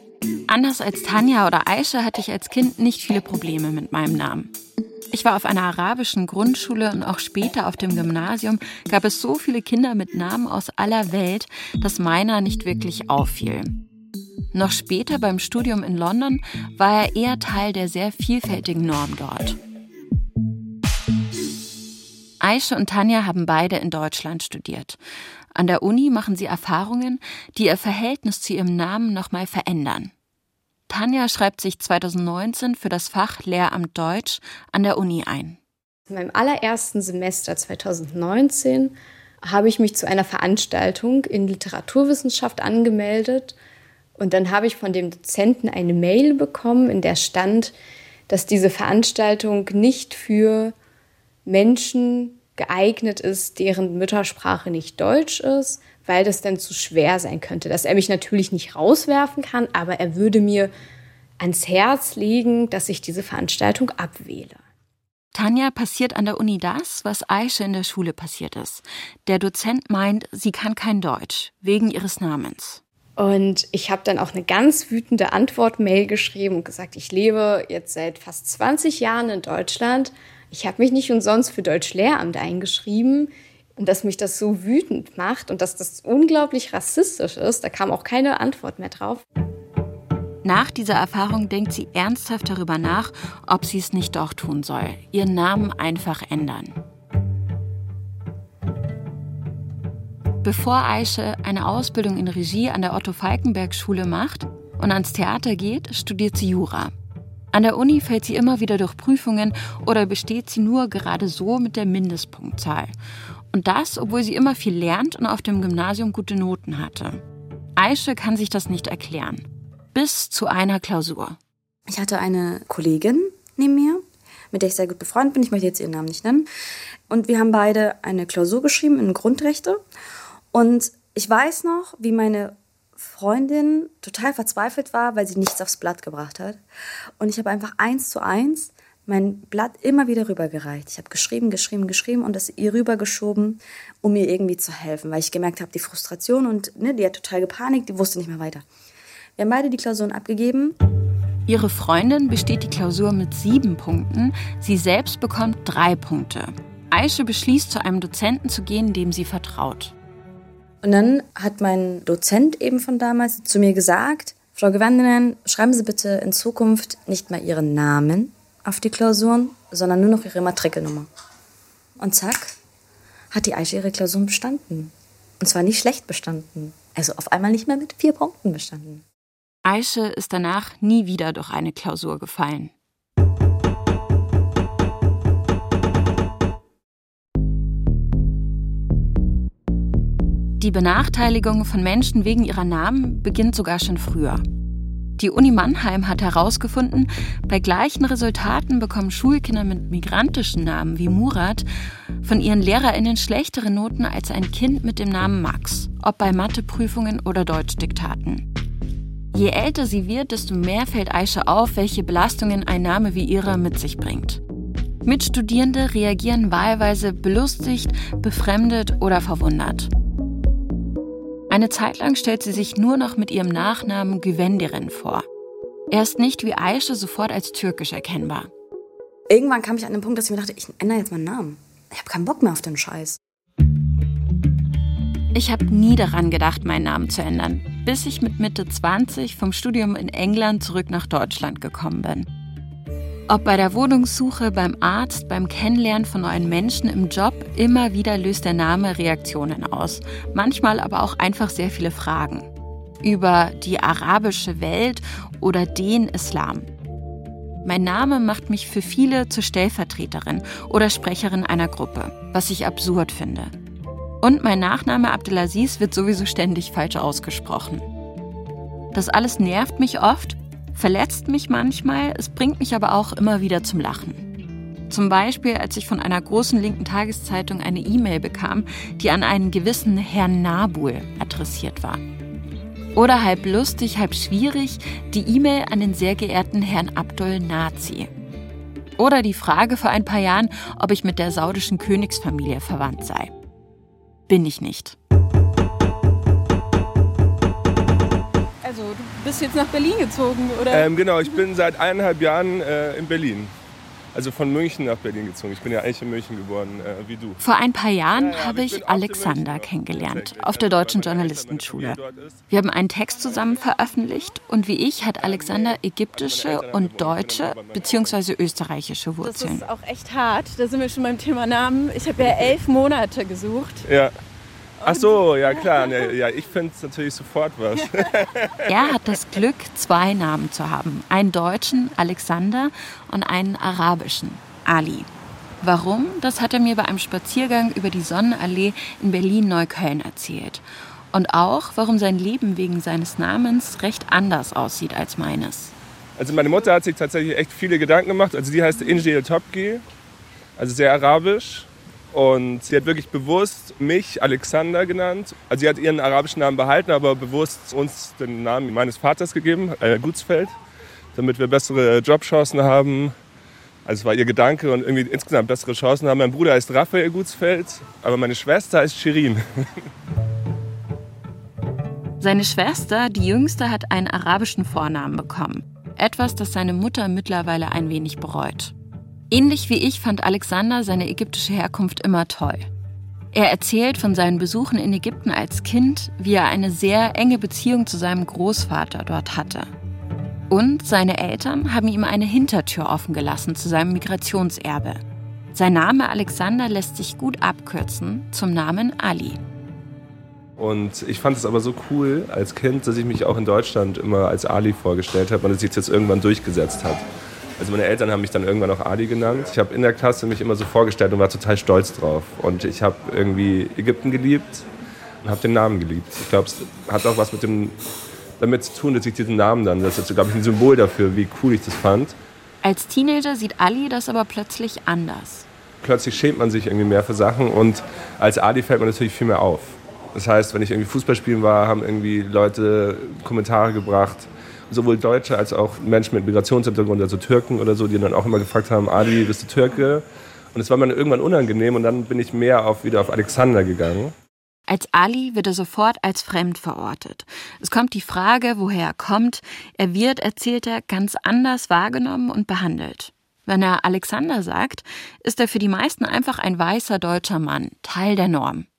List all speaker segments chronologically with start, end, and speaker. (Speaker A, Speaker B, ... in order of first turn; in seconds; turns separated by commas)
Speaker A: 0.5-4.5, Speaker A: 5.1-13.8, Speaker A: 14.5-19.6, Speaker A: 22.4-25.0, Speaker A: 25.5-30.1, Speaker A: 30.9-35.6, Speaker B: 36.1-43.5, Speaker B: 44.2-47.7, Speaker B: 48.3-50.7, Speaker B: 51.5-60.7, Speaker B: 61.4-64.6, Speaker A: 65.3-72.8, Speaker B: 73.2-89.2, Speaker A: 90.4-96.8, Speaker A: 100.4-106.9, Speaker A: 107.5-112.9, Speaker A: 113.5-117.2, Speaker A: 117.8-121.4, Speaker C: 121.9-126.5, Speaker C: 127.1-129.8, Speaker C: 130.5-136.6, Speaker C: 137.2-148.6, Speaker C: 149.4-150.8, Speaker A: 151.5-159.9, Speaker C: 160.8-171.1, Speaker C: 172.0-172.5, Speaker C: 173.3-179.0, Speaker A: 179.6-182.7, Speaker A: 190.6-194.4, Speaker A: 195.2-201.6, Speaker A: 202.2-208.4, Speaker A: 209.3-214.4, Speaker A: 215.0-219.9, Speaker A: 221.5-225.2, Speaker A: 225.9-228.5, Speaker C: 229.3-233.2, Speaker A: 235.3-242.3, Speaker A: 243.3-252.5, Speaker A: 253.0-256.7, Speaker A: 257.6-263.5, Speaker A: 264.2-267.8, Speaker A: 268.9-274.2, Speaker A: 274.9-282.0, Speaker A: 282.9-288.1, Speaker A: 289.0-293.3, Speaker A: 294.3-294.9, Speaker D: 298.6-301.4, Speaker E: 300.7-303.5, Speaker E: 304.1-307.4, Speaker A: 307.4-312.0, Speaker E: 308.1-312.4, Speaker A: 312.5-319.6, Speaker E: 313.3-313.6, Speaker E: 315.2-318.2, Speaker D: 319.2-323.9, Speaker E: 323.9-324.1, Speaker D: 324.8-326.1, Speaker E: 324.8-328.5, Speaker A: 328.7-335.1, Speaker A: 335.6-345.7, Speaker E: 346.2-349.8, Speaker E: 350.6-360.5, Speaker E: 361.1-363.1, Speaker E: 363.9-369.4, Speaker A: 372.2-378.7, Speaker A: 379.3-382.7, Speaker A: 383.3-389.7, Speaker A: 390.5-395.0, Speaker A: 395.5-399.4, Speaker E: 400.6-407.0, Speaker E: 407.6-414.6, Speaker E: 415.2-417.7, Speaker E: 418.4-422.1, Speaker A: 422.6-425.5, Speaker E: 425.8-444.1, Speaker A: 444.7-458.7